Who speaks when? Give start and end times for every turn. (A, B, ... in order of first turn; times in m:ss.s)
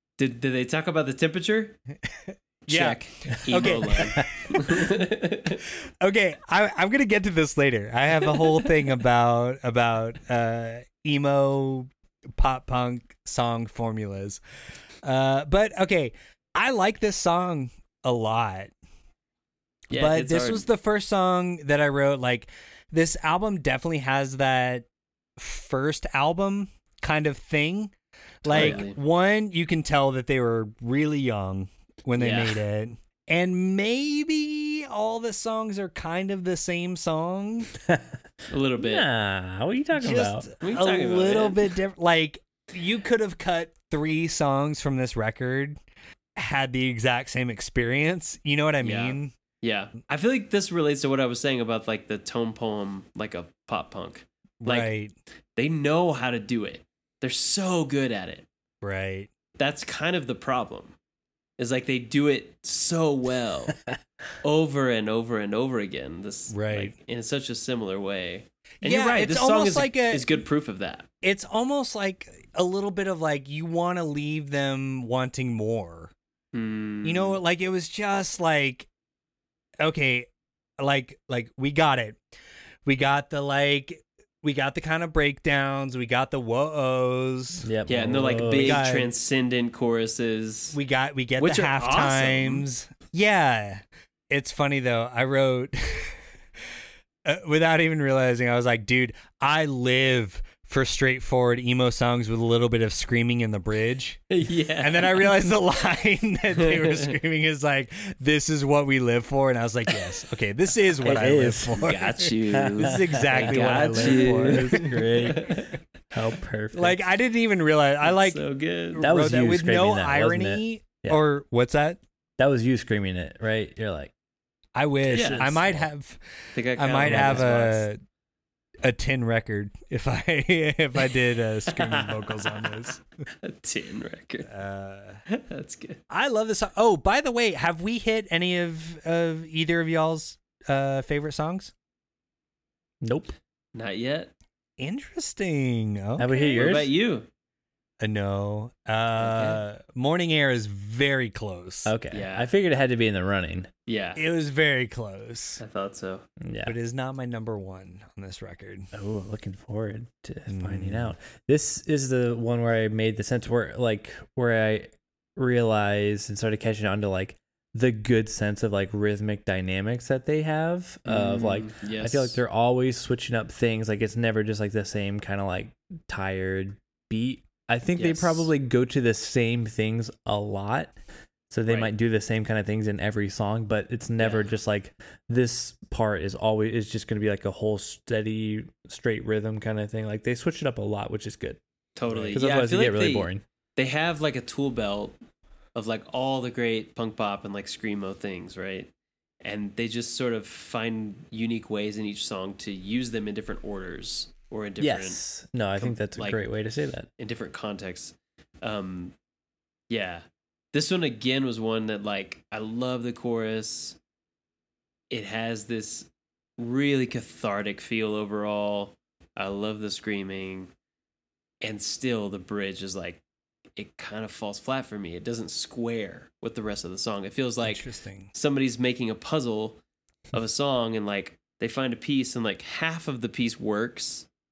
0:00.2-0:01.8 A
0:02.1-0:05.0 B
0:02.7-0:05.6 A
0:04.0-0:04.2 C
0:06.0-0:14.4 B
0:15.0-0:18.7 B
0:19.9-0:20.7 A
0:19.9-0:24.8 B
0:25.4-0:37.7 B
0:28.4-0:29.0 A
0:28.5-0:28.8 C
0:32.2-0:32.6 A
0:37.9-0:38.2 C
0:38.5-0:39.0 A
0:38.8-0:40.4 C
0:40.0-0:45.8 B
0:40.6-0:41.6 A
0:46.4-0:49.3 B
0:48.8-0:54.9 A
0:54.6-0:55.1 B
0:55.5-0:58.4 A
0:58.8-0:59.3 B
0:59.6-1:00.9 A
1:01.6-1:03.7 A
1:04.4-1:11.1 A
1:06.5-1:06.9 B
1:08.8-1:10.3 B
1:11.2-1:16.1 B
1:16.5-1:17.4 A
1:17.0-1:18.9 B
1:19.8-1:20.3 B
1:20.8-1:22.2 B
1:22.8-1:27.7 B
1:27.6-1:28.8 C
1:27.8-1:30.8 A
1:28.6-1:29.1 B
1:30.7-1:36.2 B
1:31.4-1:32.6 A
1:37.2-1:44.3 B
1:44.3-1:45.3 A
1:44.8-1:55.4 B
1:46.6-1:47.1 A
1:51.0-1:51.9 C
1:51.7-1:55.7 A
1:52.5-1:55.6 C
1:56.1-1:57.0 C
1:56.7-2:02.0 B
1:58.0-1:59.0 A
1:59.0-2:01.2 C
2:02.4-2:04.1 C
2:04.7-2:06.2 B
2:05.1-2:05.8 A
2:05.1-2:05.8 C
2:06.5-2:07.9 A
2:06.7-2:08.0 B
2:07.0-2:07.5 C
2:08.8-2:13.2 B
2:11.7-2:12.6 A
2:13.4-2:14.5 A
2:14.5-2:15.2 B
2:15.3-2:16.0 A
2:16.1-2:21.7 B
2:23.0-2:23.3 C
2:23.7-2:24.3 A
2:24.8-2:26.9 B
2:26.2-2:26.9 C
2:26.6-2:27.3 A
2:28.0-2:31.9 B
2:29.2-2:29.6 A
2:31.8-2:33.7 C
2:32.1-2:32.5 A
2:33.8-2:34.2 A
2:34.2-2:35.6 B
2:35.6-2:36.2 A
2:36.4-2:36.8 C
2:36.6-2:38.9 B
2:38.9-3:01.0 C
2:40.5-2:41.1 B
2:51.0-2:52.4 A
2:58.0-2:58.5 A
3:01.5-3:11.6 C
3:01.7-3:01.9 A
3:04.2-3:04.5 A
3:12.0-3:15.2 A
3:12.1-3:13.4 C
3:15.7-3:18.9 A
3:19.4-3:25.2 A
3:24.8-3:27.1 C
3:25.8-3:26.4 A
3:27.2-3:29.2 A
3:29.9-3:34.0 A
3:35.1-3:40.7 A
3:41.6-3:43.2 A
3:43.8-3:49.8 A
3:47.6-3:48.3 B
3:50.3-3:54.3 A